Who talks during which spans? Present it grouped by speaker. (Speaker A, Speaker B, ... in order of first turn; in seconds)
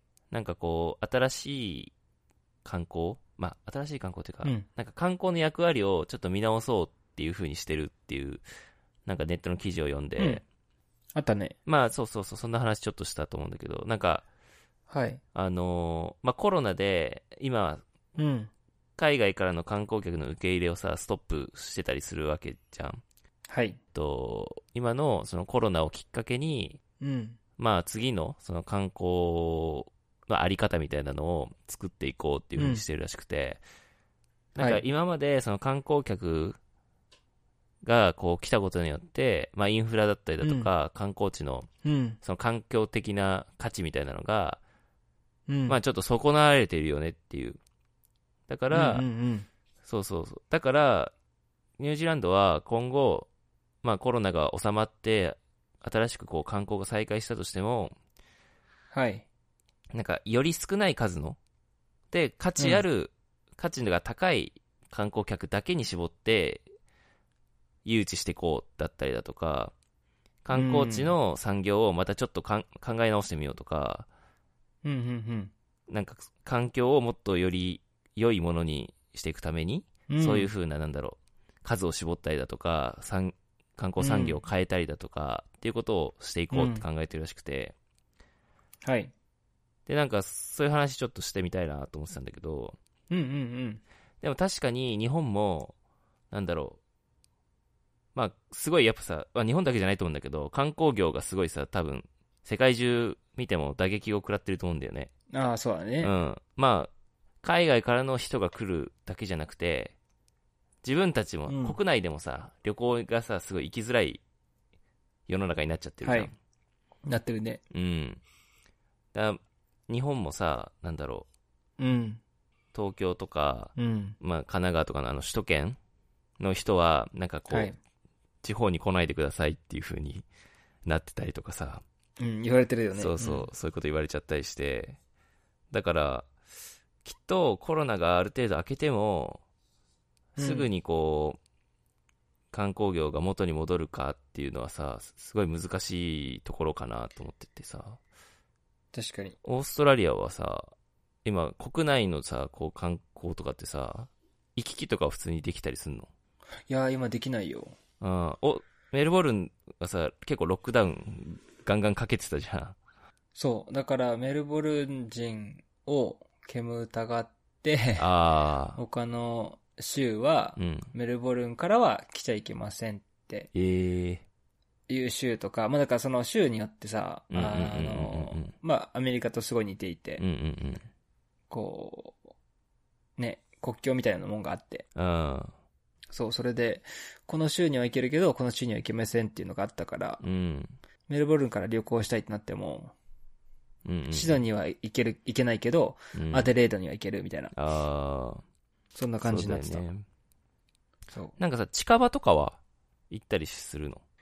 Speaker A: 0.3-1.9, 2.6-8.4, 9.1-10.4, 11.7-14.2, 15.3-17.8, 19.0-23.0, 23.9-26.8, 27.6-33.6, 34.5-36.6, 37.8-41.7, 42.2-44.6, 45.7-47.6, 48.5-49.0, 49.8-51.1, 51.8-53.3, 53.8-57.9, 59.9-61.4, 62.1-66.6, 67.8-69.7, 70.4-74.1, 75.9-87.7, 89.9-92.8, 94.2-95.7, 96.3-96.8, 98.1-105.1, 106.0-106.9, 107.4-110.0, 110.8-114.2, 115.3-116.3, 117.7-118.2, 119.1-121.3, 122.7-125.8, 126.4-127.7, 128.4-130.2, 130.8-131.8, 132.9-135.0, 135.7-136.3, 137.0-139.4, 140.4-141.4, 142.5-148.0, 149.4-150.7, 151.2-156.1, 158.0-162.8, 168.0-168.8, 170.6-170.9, 173.5-174.2, 177.3-178.5, 180.2-180.8, 184.9-185.5, 190.2-190.7, 193.8-194.4, 196.1-196.5, 197.5-198.4, 199.2-200.0, 201.4-202.6, 203.1-204.0
Speaker B: 10.2-10.4, 11.1-11.6, 14.9-15.2, 18.1-18.5, 23.5-23.8, 27.0-27.4, 32.6-32.8, 34.6-34.8, 40.4-40.7, 41.8-42.2, 45.5-45.8, 48.7-49.5, 58.9-59.2, 62.6-62.8, 70.5-71.2, 74.8-75.5, 80.1-80.5, 84.0-84.4, 86.5-86.8, 88.8-89.1, 93.1-93.8, 105.3-106.1, 111.5-111.8, 116.0-116.3, 117.1-117.6, 121.8-122.2, 123.8-124.2, 127.5-127.8, 132.2-133.5, 140.4-140.7, 148.9-149.3, 156.7-157.7, 163.3-168.1, 168.8-173.5, 174.9-180.2, 181.5-182.2, 183.2-184.8, 186.1-190.2, 191.1-192.9, 194.1-197.5, 198.9-199.8